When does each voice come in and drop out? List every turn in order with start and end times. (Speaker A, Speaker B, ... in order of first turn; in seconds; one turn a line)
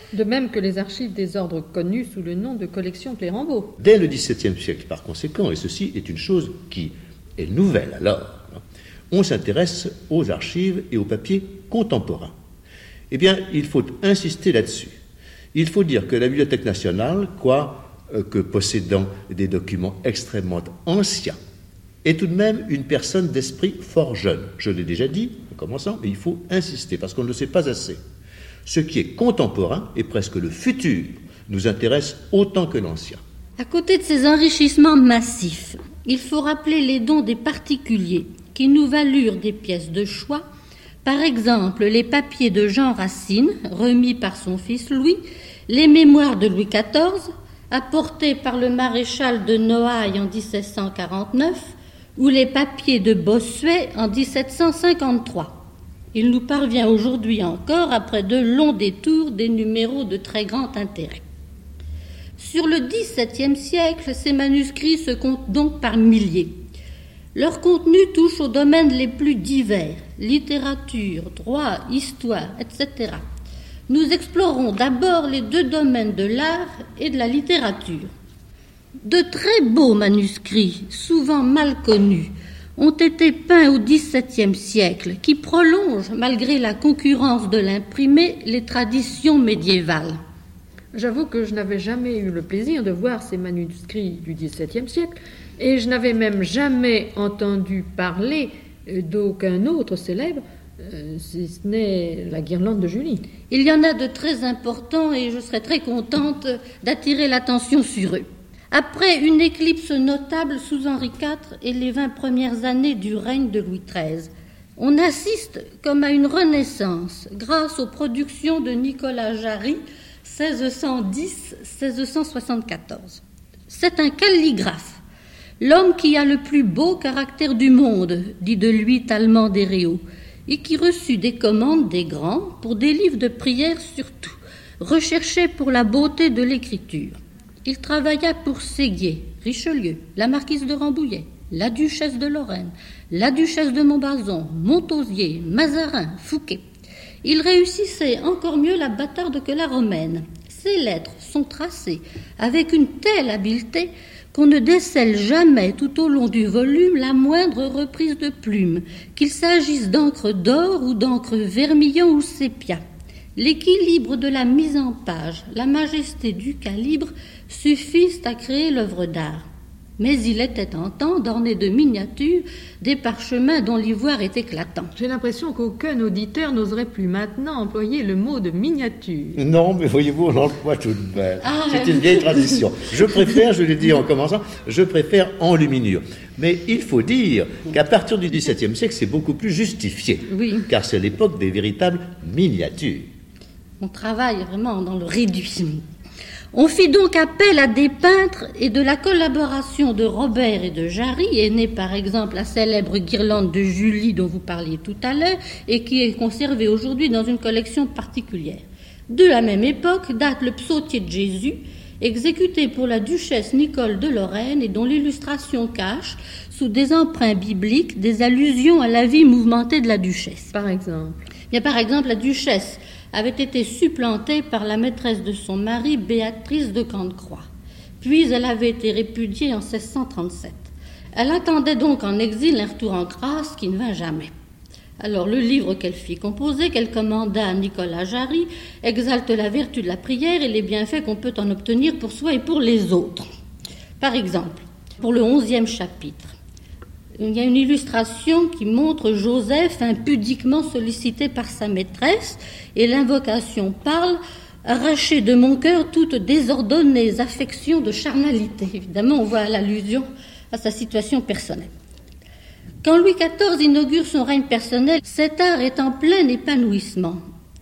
Speaker A: 0.1-3.8
Speaker B: 3.8-8.6
Speaker B: 9.1-12.3
Speaker B: 13.1-15.0
Speaker B: 15.5-21.4
Speaker B: 22.0-28.0
Speaker B: 28.7-33.2
Speaker C: 33.6-40.5
Speaker C: 41.0-55.6
Speaker C: 56.1-61.2
Speaker C: 62.4-66.6
Speaker C: 67.3-73.2
Speaker C: 73.9-78.1
Speaker C: 79.0-90.2
Speaker A: 90.9-103.3
Speaker C: 103.5-125.0
Speaker C: 125.6-146.6
Speaker C: 147.2-162.8
Speaker C: 163.4-169.5
Speaker C: 170.0-174.9
Speaker A: 175.0-179.4
Speaker B: 179.3-193.1
Speaker C: 181.4-182.6
Speaker C: 190.3-190.7
Speaker C: 193.8-195.9
Speaker C: 196.5-220.5
Speaker A: 220.5-221.2
Speaker C: 221.5-227.5
Speaker C: 228.0-234.3
Speaker C: 235.0-243.3
Speaker C: 244.0-246.3
Speaker C: 247.2-261.7
Speaker C: 262.8-267.2